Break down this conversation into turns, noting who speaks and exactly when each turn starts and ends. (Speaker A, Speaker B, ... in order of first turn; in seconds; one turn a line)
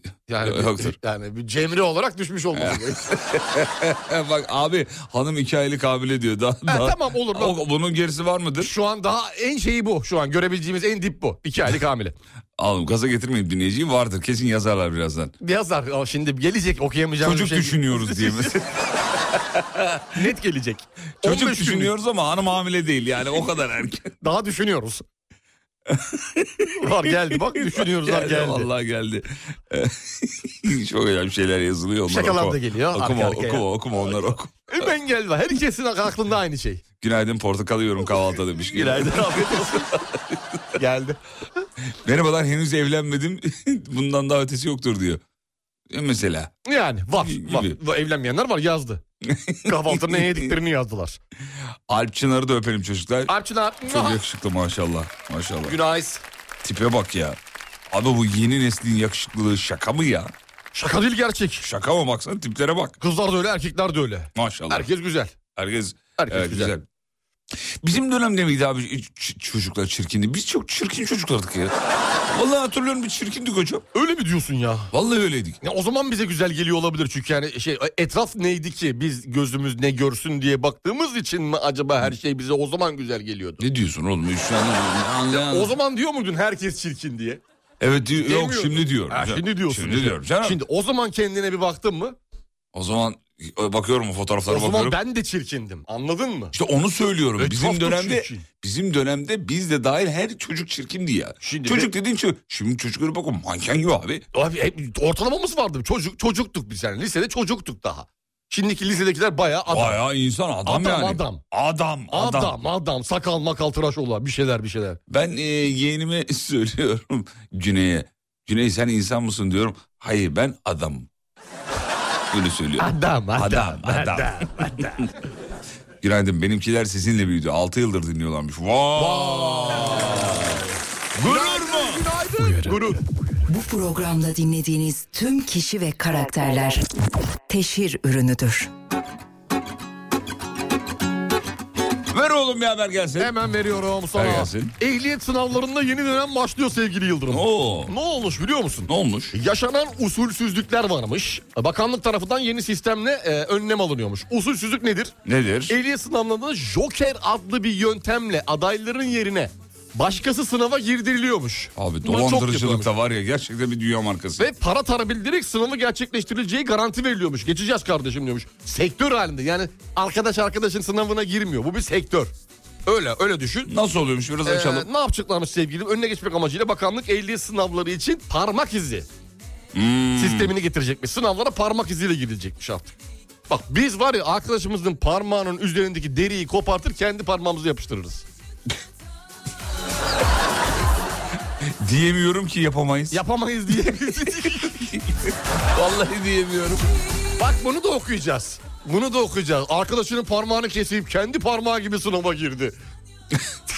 Speaker A: 0.3-3.1
Speaker B: 0.4-0.9
Speaker B: 2.5-8.7
Speaker A: 6.7-7.6
Speaker A: 8.6-12.2
Speaker B: 12.6-15.3
Speaker A: 15.4-18.6
Speaker B: 17.2-18.8
Speaker A: 20.1-21.9
Speaker B: 21.2-24.1
Speaker A: 24.2-25.0
Speaker B: 25.9-26.7
Speaker A: 26.8-28.7
Speaker B: 27.5-34.7
Speaker A: 32.1-36.8
Speaker B: 37.0-40.6
Speaker A: 38.6-39.9
Speaker A: 40.8-41.2
Speaker B: 42.0-45.2
Speaker B: 45.9-46.5
Speaker A: 46.6-49.0
Speaker B: 47.2-47.8
Speaker B: 49.2-50.5
Speaker A: 49.6-51.2
Speaker B: 51.9-53.3
Speaker A: 53.3-54.2
Speaker B: 53.9-55.8
Speaker A: 55.6-56.2
Speaker B: 56.6-57.4
Speaker B: 57.9-60.3
Speaker A: 60.7-61.7
Speaker B: 61.6-63.0
Speaker A: 63.0-65.4
Speaker B: 64.3-64.9
Speaker B: 65.5-66.8
Speaker A: 66.2-66.7
Speaker B: 67.8-71.7
Speaker B: 72.3-73.8
Speaker A: 73.9-74.9
Speaker B: 74.9-75.6
Speaker A: 75.6-83.6
Speaker B: 83.6-85.8
Speaker A: 85.3-87.4
Speaker B: 87.8-90.6
Speaker A: 88.2-92.2
Speaker B: 92.7-95.0
Speaker A: 94.5-96.5
Speaker B: 96.5-104.2
Speaker A: 97.4-98.5
Speaker A: 101.4-101.9
Speaker A: 104.3-110.0
Speaker B: 109.7-112.6
Speaker A: 110.6-111.4
Speaker A: 112.1-115.0
Speaker B: 115.1-121.1
Speaker B: 122.3-124.4
Speaker A: 122.8-125.1
Speaker B: 126.0-130.6
Speaker A: 128.9-130.6
Speaker B: 131.2-132.1
Speaker A: 131.2-133.0
Speaker C: 133.5-136.8
Speaker C: 137.5-138.7
Speaker B: 142.1-143.3
Speaker A: 143.2-155.2
Speaker B: 144.1-144.7
Speaker B: 147.3-147.9
Speaker B: 148.9-149.3
Speaker B: 155.2-155.8
Speaker A: 155.7-162.9
Speaker B: 161.8-164.5
Speaker A: 164.4-172.3
Speaker A: 172.8-173.7
Speaker B: 173.7-174.9
Speaker A: 174.4-179.1
Speaker B: 179.7-180.5
Speaker A: 180.2-182.9
Speaker A: 183.5-188.2
Speaker B: 191.8-193.2
Speaker A: 193.1-194.9
Speaker B: 195.7-196.8
Speaker A: 197.4-202.8